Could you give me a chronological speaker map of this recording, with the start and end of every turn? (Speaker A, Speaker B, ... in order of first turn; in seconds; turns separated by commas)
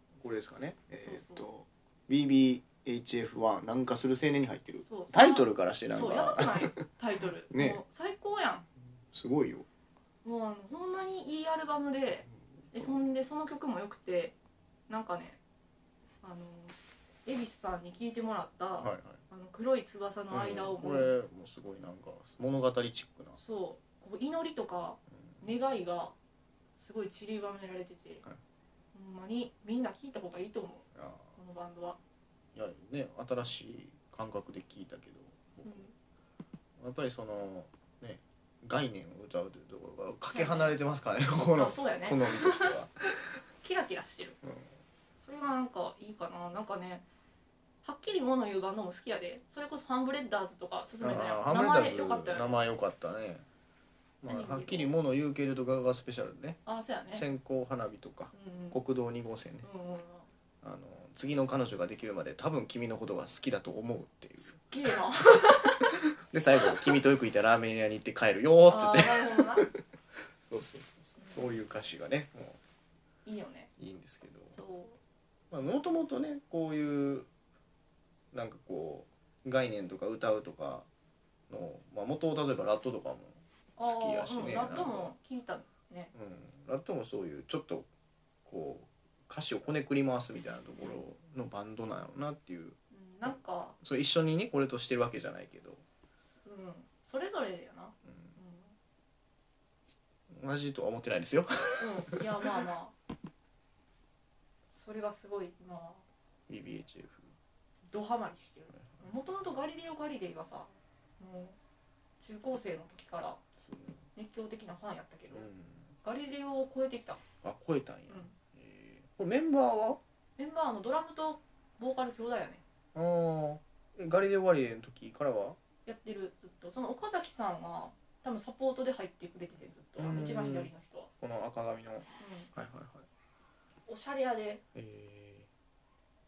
Speaker A: 0.2-6.8, Speaker B: 1.1-1.4, Speaker B: 4.8-8.7, Speaker A: 7.5-7.8, Speaker A: 9.1-9.7, Speaker B: 10.2-14.4, Speaker A: 12.3-13.0, Speaker B: 14.9-15.4, Speaker B: 16.2-21.1, Speaker A: 18.8-19.2, Speaker A: 20.3-23.4, Speaker B: 23.4-26.1, Speaker A: 25.1-25.4, Speaker B: 26.8-28.2, Speaker B: 28.9-32.0, Speaker A: 30.9-31.3, Speaker A: 32.5-35.9, Speaker B: 35.6-35.9, Speaker A: 36.8-42.9, Speaker B: 40.3-40.8, Speaker B: 41.5-42.8, Speaker B: 43.6-44.4, Speaker A: 44.4-44.7, Speaker B: 45.2-47.1, Speaker B: 47.8-52.6, Speaker A: 51.0-53.5, Speaker A: 54.2-56.6, Speaker B: 54.3-54.9, Speaker B: 56.7-57.2, Speaker A: 57.1-59.7, Speaker B: 58.3-58.8, Speaker B: 59.6-60.3, Speaker A: 60.6-64.6, Speaker B: 64.4-65.9, Speaker A: 66.3-69.7, Speaker B: 68.7-69.7, Speaker A: 70.4-72.6, Speaker B: 71.2-71.5, Speaker B: 73.2-73.7, Speaker A: 73.8-74.6, Speaker B: 74.5-75.0, Speaker A: 75.5-77.3, Speaker A: 78.3-80.9, Speaker A: 81.5-85.1, Speaker B: 83.8-86.1, Speaker A: 86.1-87.9, Speaker A: 88.5-95.8, Speaker B: 92.9-93.8, Speaker B: 96.4-98.7, Speaker A: 98.1-98.3, Speaker A: 100.3-102.2, Speaker B: 101.8-103.0, Speaker B: 104.7-106.0, Speaker A: 106.5-107.3, Speaker B: 107.9-111.6, Speaker A: 108.7-109.1, Speaker B: 112.2-113.4, Speaker A: 113.6-114.0, Speaker B: 114.2-115.5, Speaker A: 115.3-115.9, Speaker B: 116.0-117.2, Speaker A: 117.4-120.0, Speaker B: 118.1-118.3, Speaker B: 120.4-122.6, Speaker A: 123.0-125.6, Speaker B: 125.9-131.1, Speaker A: 130.0-133.1, Speaker B: 132.2-132.5, Speaker B: 133.9-134.6, Speaker A: 134.8-135.5